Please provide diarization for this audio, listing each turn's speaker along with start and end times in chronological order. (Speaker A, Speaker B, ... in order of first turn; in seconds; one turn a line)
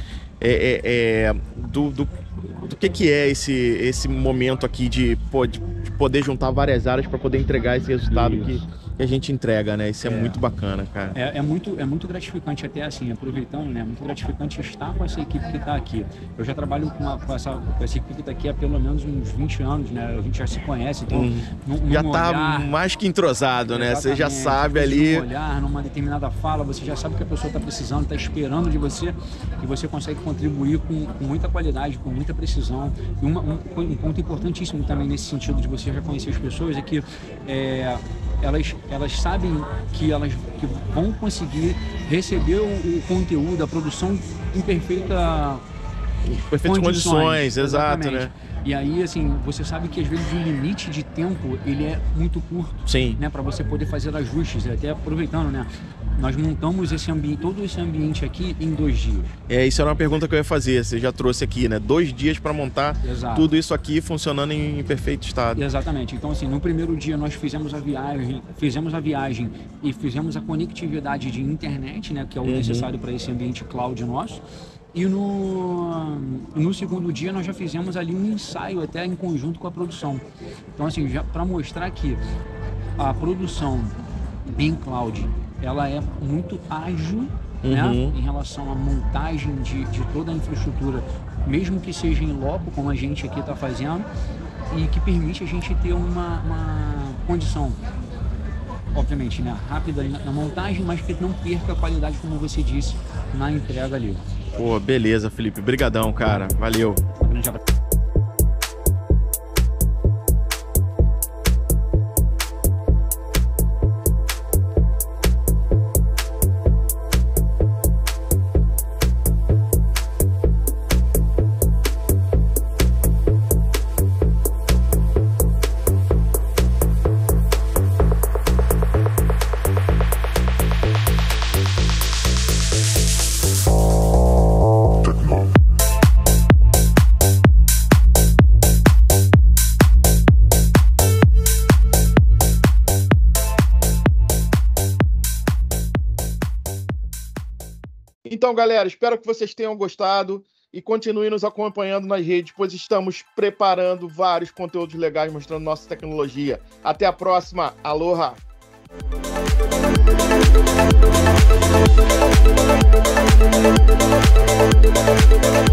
Speaker A: 0.4-11.2
Speaker B: 8.1-8.6
Speaker B: 10.0-10.4
Speaker B: 11.2-22.7
Speaker A: 21.1-25.3
Speaker B: 23.6-45.6
Speaker A: 46.2-48.3
Speaker B: 46.6-59.3
Speaker A: 52.9-53.2
Speaker A: 59.5-65.6
Speaker B: 63.0-63.5
Speaker B: 65.5-74.4
Speaker A: 72.4-72.9
Speaker B: 74.9-80.2
Speaker B: 80.8-82.2
Speaker B: 83.0-94.1
Speaker A: 87.6-88.2
Speaker B: 94.7-97.8
Speaker B: 98.9-104.2
Speaker A: 104.5-107.0
Speaker B: 107.2-107.6
Speaker A: 148.3-158.4